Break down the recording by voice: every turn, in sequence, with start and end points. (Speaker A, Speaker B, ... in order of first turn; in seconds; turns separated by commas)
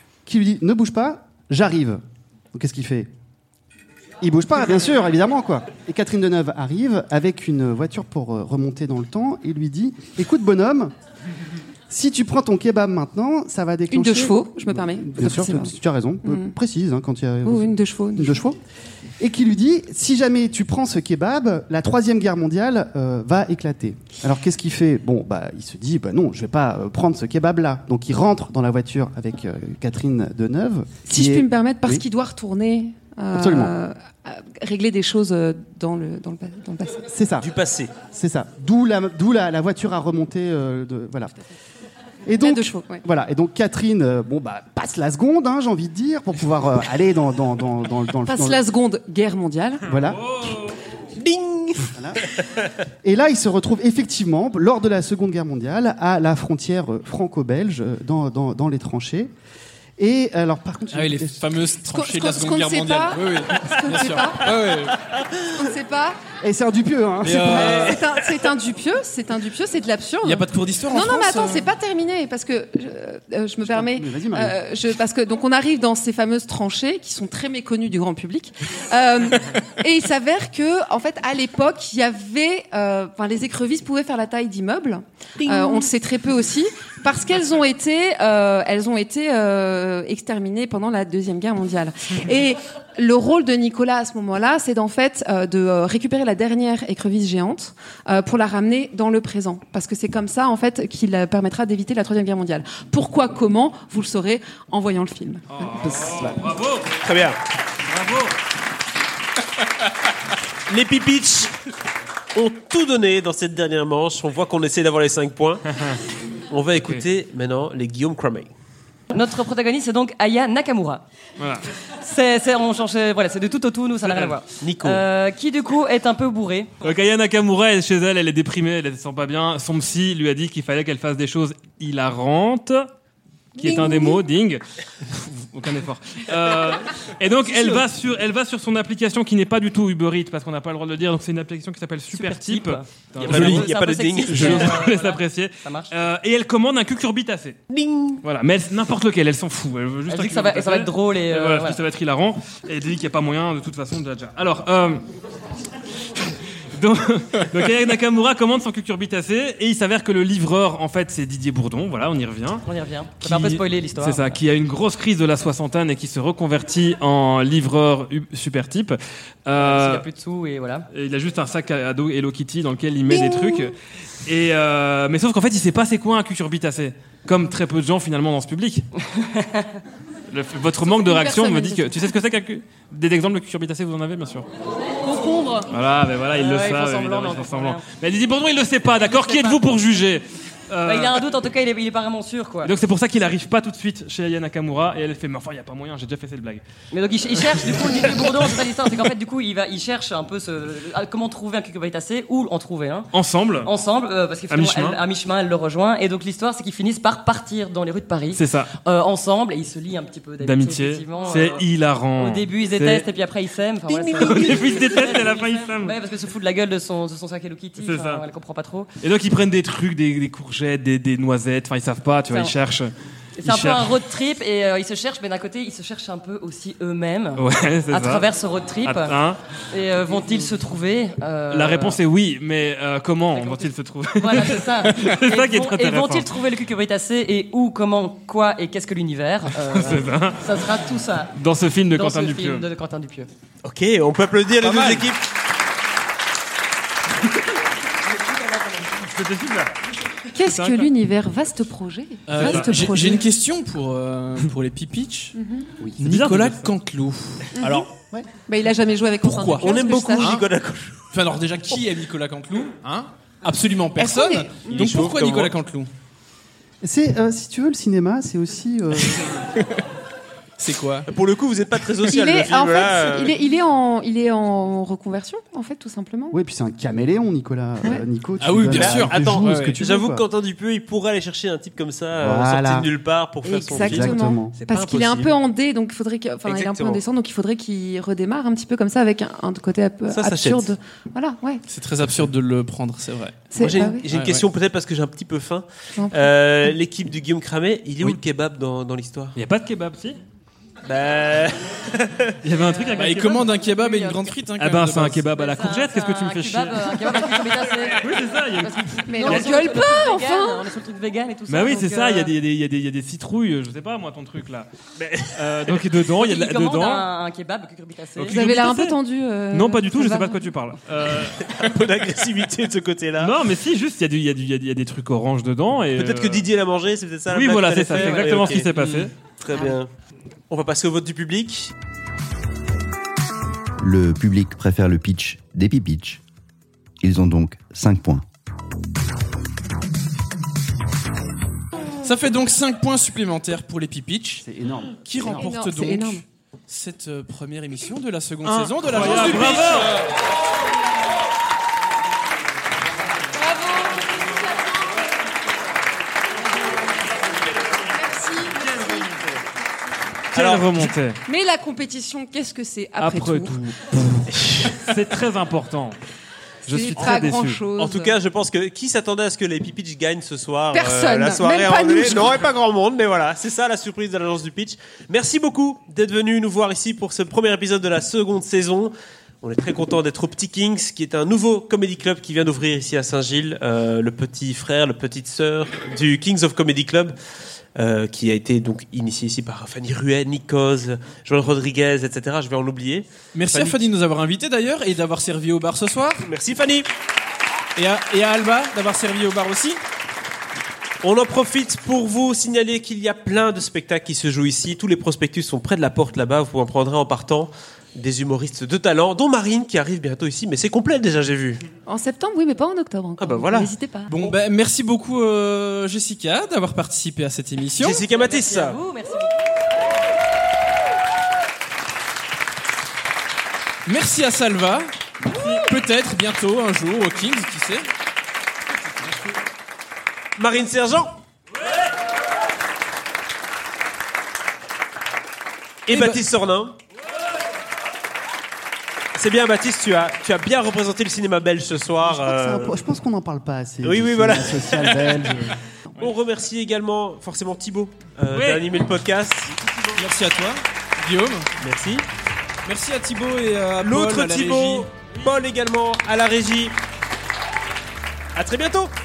Speaker A: 0.2-3.1, Speaker A: 4.2-10.9, Speaker A: 11.9-18.6, Speaker B: 13.9-16.5, Speaker B: 17.4-18.4, Speaker A: 19.2-32.0, Speaker B: 31.1-37.1, Speaker A: 33.3-33.7, Speaker A: 37.1-41.4, Speaker C: 37.4-38.0, Speaker A: 42.2-48.6, Speaker B: 42.4-43.0, Speaker B: 48.2-49.9, Speaker A: 49.9-50.2, Speaker D: 49.9-50.8, Speaker C: 51.1-52.5, Speaker A: 52.0-52.2, Speaker A: 53.0-59.3, Speaker A: 60.0-61.5, Speaker E: 60.9-65.0, Speaker B: 61.9-64.6, Speaker B: 65.5-66.2, Speaker A: 66.4-67.9, Speaker E: 67.2-68.0, Speaker B: 67.4-105.5, Speaker E: 70.2-71.7, Speaker A: 73.7-74.5, Speaker D: 105.5-106.9, Speaker A: 105.8-106.4, Speaker C: 107.0-107.4, Speaker D: 107.8-108.3, Speaker C: 110.7-111.5, Speaker C: 112.3-115.8, Speaker C: 116.5-118.5, Speaker F: 119.1-121.0, Speaker D: 121.4-121.7, Speaker F: 122.0-126.7, Speaker D: 124.1-124.3, Speaker C: 124.6-125.0, Speaker D: 126.8-132.9, Speaker D: 133.6-143.7, Speaker B: 133.6-134.2, Speaker F: 142.1-145.9, Speaker C: 143.2-144.8, Speaker E: 143.2-143.6, Speaker D: 144.3-147.6, Speaker C: 147.7-148.2, Speaker D: 148.2-155.0, Speaker F: 150.1-151.8, Speaker D: 156.7-162.7, Speaker F: 162.7-164.4, Speaker D: 163.2-170.0, Speaker F: 169.6-170.9, Speaker D: 170.9-178.9, Speaker F: 179.1-179.8, Speaker D: 180.3-184.5, Speaker B: 180.8-182.1, Speaker B: 185.0-185.7, Speaker D: 185.7-191.2, Speaker F: 186.3-187.8, Speaker F: 189.1-189.6, Speaker F: 190.8-192.7, Speaker D: 192.6-196.6, Speaker F: 196.9-203.1, Speaker D: 203.1-203.7, Speaker F: 203.6-218.9, Speaker D: 204.5-205.0, Speaker D: 208.3-208.7, Speaker D: 210.4-213.0, Speaker D: 214.1-215.9, Speaker D: 217.8-218.2, Speaker D: 219.0-222.9, Speaker F: 223.4-229.2, Speaker D: 223.4-223.9, Speaker D: 227.4-228.3, Speaker D: 228.8-229.4, Speaker F: 229.7-232.0, Speaker D: 231.5-236.3, Speaker F: 233.3-241.3, Speaker D: 239.6-240.8, Speaker D: 241.3-242.6, Speaker F: 241.9-243.3, Speaker C: 243.6-245.2, Speaker E: 244.6-245.1, Speaker F: 248.0-248.9, Speaker D: 249.0-249.8, Speaker B: 250.3-253.3, Speaker D: 250.4-250.9, Speaker E: 252.3-255.3, Speaker D: 252.4-252.7, Speaker B: 255.3-255.7, Speaker E: 256.0-257.9, Speaker D: 256.0-256.7, Speaker B: 257.5-257.8, Speaker B: 258.4-260.4, Speaker E: 259.2-260.5, Speaker C: 259.6-261.0, Speaker E: 261.1-265.9, Speaker B: 264.0-264.5, Speaker C: 264.7-265.5, Speaker A: 266.8-269.4, Speaker E: 269.5-269.8, Speaker E: 270.6-271.1, Speaker C: 271.1-273.4, Speaker B: 272.1-276.4, Speaker A: 276.3-280.2, Speaker E: 278.4-279.8, Speaker C: 278.7-285.4, Speaker A: 282.2-282.9, Speaker B: 283.4-291.6, Speaker A: 283.8-284.6, Speaker C: 286.4-287.0, Speaker C: 290.1-290.7, Speaker E: 291.7-293.5, Speaker B: 293.5-294.0, Speaker C: 293.6-299.4, Speaker E: 294.1-294.4, Speaker B: 296.0-296.3, Speaker D: 299.4-300.2, Speaker C: 300.8-302.4, Speaker D: 302.4-303.4, Speaker F: 302.5-304.3, Speaker E: 303.0-305.3, Speaker D: 304.6-309.5, Speaker F: 305.3-312.3, Speaker B: 309.1-310.6, Speaker D: 311.5-314.7, Speaker C: 315.0-315.8, Speaker D: 315.3-317.0, Speaker F: 316.1-318.5, Speaker D: 318.2-319.0, Speaker B: 318.3-320.4, Speaker D: 319.5-321.5, Speaker C: 321.4-323.3, Speaker D: 323.2-326.4, Speaker C: 325.9-329.9, Speaker D: 327.3-329.1, Speaker C: 330.5-331.7, Speaker G: 333.8-336.2, Speaker G: 337.0-338.2, Speaker E: 342.0-344.4, Speaker A: 344.4-345.5, Speaker E: 345.0-350.1, Speaker B: 345.3-346.2, Speaker D: 348.4-349.9, Speaker B: 353.3-354.9, Speaker B: 357.9-359.1, Speaker D: 360.3-361.2, Speaker C: 360.4-360.9, Speaker B: 361.2-363.6, Speaker D: 363.0-366.0, Speaker C: 364.3-364.8, Speaker B: 366.6-368.1, Speaker D: 366.7-367.6, Speaker C: 367.8-387.1, Speaker B: 370.7-372.4, Speaker C: 387.8-393.8, Speaker E: 393.3-396.3, Speaker C: 396.2-396.9, Speaker E: 397.8-399.8, Speaker C: 401.0-411.6, Speaker B: 411.9-414.3, Speaker C: 413.2-413.7, Speaker E: 414.1-418.0, Speaker C: 417.8-418.8, Speaker F: 418.0-419.6, Speaker E: 423.9-427.9, Speaker C: 430.4-431.2, Speaker E: 435.9-436.2, Speaker C: 435.9-436.8, Speaker C: 439.1-442.8, Speaker A: 442.1-445.6, Speaker C: 443.8-445.4, Speaker C: 445.9-449.5, Speaker D: 448.3-448.7, Speaker D: 449.5-449.9, Speaker E: 449.9-451.5, Speaker C: 451.6-452.1, Speaker E: 452.6-454.9, Speaker C: 453.8-456.8, Speaker C: 458.3-458.9